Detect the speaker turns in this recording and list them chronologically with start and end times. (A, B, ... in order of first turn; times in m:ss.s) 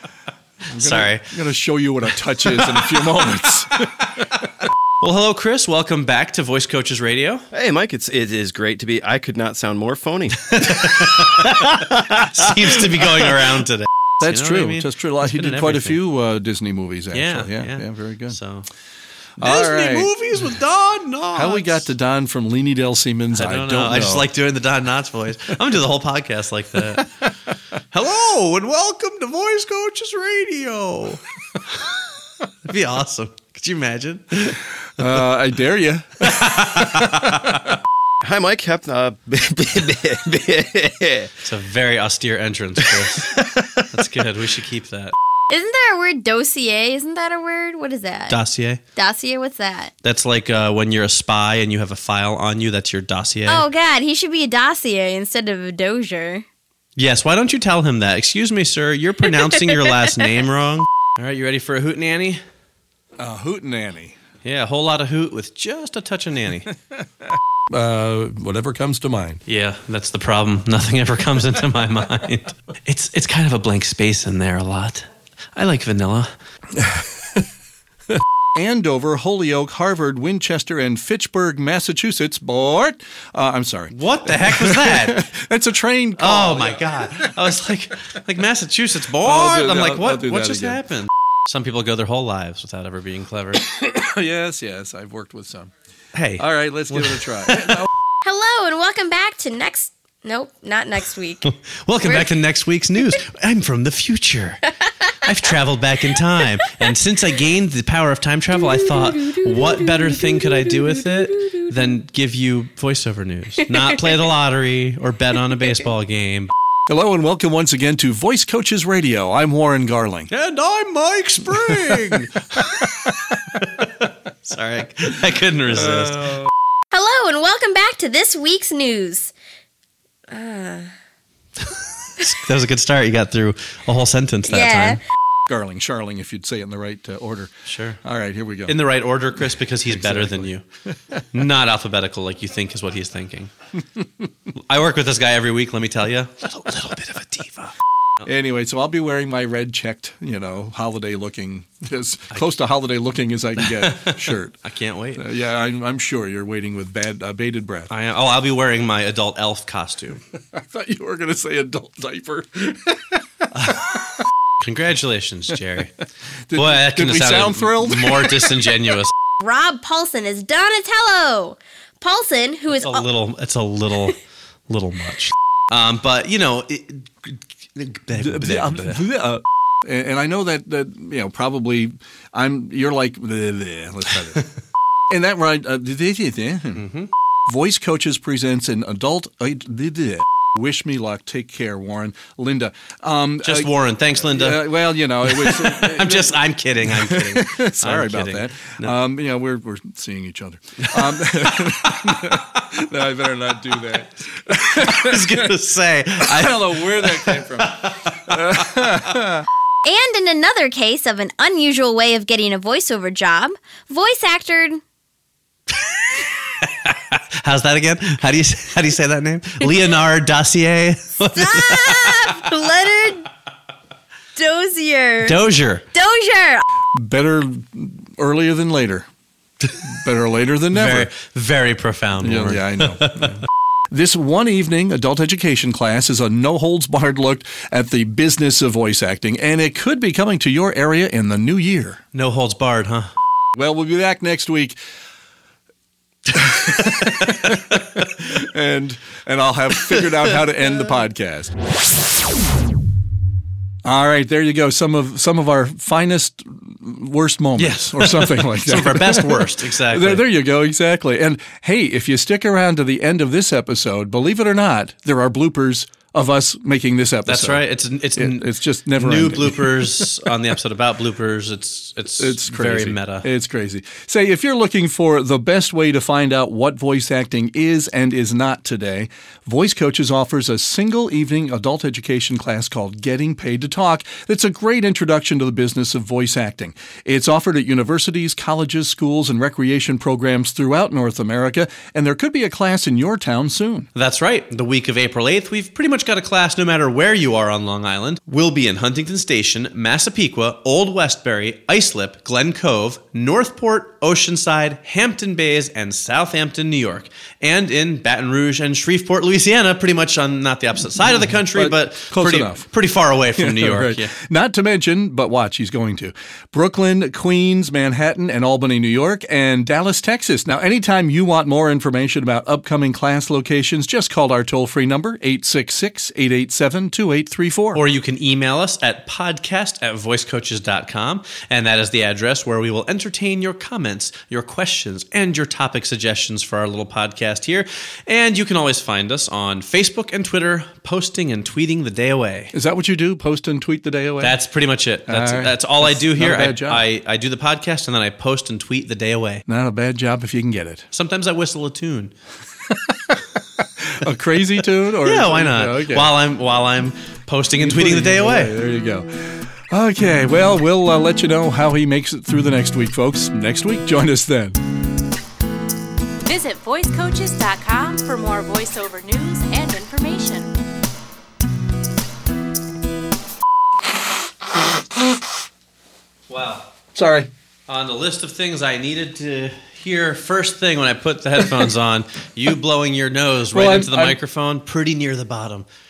0:00.7-0:04.1 A
0:00.7-0:01.3 B
0:02.4-0:07.4 B
0:07.5-0:11.0 C
0:10.5-0:16.0 B
0:14.2-0:18.4 A
0:17.1-0:18.7 B
0:19.4-0:21.9 B
0:19.4-0:20.1 A
0:21.3-0:24.3 A
0:23.3-0:27.1 B
0:27.9-0:32.0 B
0:32.6-0:35.1 B
0:35.0-0:37.7 A
0:36.2-0:37.6 B
0:38.2-0:41.3 C
0:41.4-0:45.2 B
0:45.5-0:48.4 D
0:48.3-0:48.8 B
0:49.0-0:49.9 D
0:50.0-0:53.7 B
0:53.5-0:56.4 D
0:57.0-1:02.4 B
1:03.2-1:04.2 A
1:04.4-1:06.7 B
1:07.7-1:09.4 A
1:09.4-1:16.3 B
1:16.7-1:17.4 A
1:18.5-1:27.6 A
1:23.9-1:25.3 B
1:26.2-1:33.6 B
1:29.2-1:30.8 A
1:33.6-1:35.7 A
1:36.1-1:37.8 B
1:36.4-1:37.9 A
1:38.2-1:41.5 D
1:41.4-1:56.5 B
1:42.0-1:42.3 D
1:49.1-1:49.7 D
1:56.9-2:00.3 A
2:00.3-2:06.5 B
2:01.4-2:02.2 A
2:06.9-2:09.3 D
2:10.3-2:10.9 D
2:11.7-2:15.0 B
2:14.4-2:15.0 D
2:15.5-2:17.5 A
2:17.6-2:18.0 B
2:18.0-2:18.8 A
2:18.7-2:20.6 B
2:19.4-2:21.2 A
2:21.3-2:23.5 B
2:24.7-2:27.7 B
2:28.2-2:34.6 A
2:33.6-2:35.2 B
2:35.2-2:37.9 A
2:37.9-2:40.2 B
2:40.5-2:44.1 A
2:43.5-2:43.8 B
2:44.6-2:45.9 B
2:46.5-2:48.8 A
2:46.5-2:49.1 B
2:49.4-2:53.0 D
2:52.7-2:59.0 B
2:58.1-3:04.4 A
3:05.1-3:06.8 A
3:06.8-3:07.1 B
3:07.5-3:25.5 A
3:13.4-3:18.9 B
3:21.2-3:22.4 B
3:24.7-3:29.1 B
3:26.2-3:29.5 A
3:29.8-3:34.8 D
3:35.8-3:42.4 B
3:41.3-3:43.3 D
3:44.4-3:45.4 D
3:45.2-3:45.8 B
3:45.9-3:46.6 D
3:46.9-3:49.0 A
3:49.8-3:51.1 A
3:50.7-3:53.4 B
3:52.2-4:02.0 A
4:02.1-4:03.1 B
4:03.5-4:04.8 A
4:06.3-4:11.5 A
4:07.0-4:07.5 B
4:13.8-4:30.1 A
4:17.6-4:20.3 B
4:27.2-4:33.2 B
4:32.2-4:53.9 A
4:53.9-5:14.1 B
5:11.0-5:12.7 A
5:13.3-5:27.8 A
5:27.7-5:42.5 B
5:42.5-5:44.4 A
5:44.2-5:49.4 B
5:45.1-5:46.8 A
5:49.5-5:50.8 A
5:50.9-5:52.1 B
5:52.7-5:56.1 A
5:55.0-5:58.6 B
5:57.6-6:04.6 A
6:06.2-6:10.5 E
6:16.3-6:16.7 B
6:16.9-6:17.3 A
6:17.7-6:25.6 B
6:23.5-6:24.2 A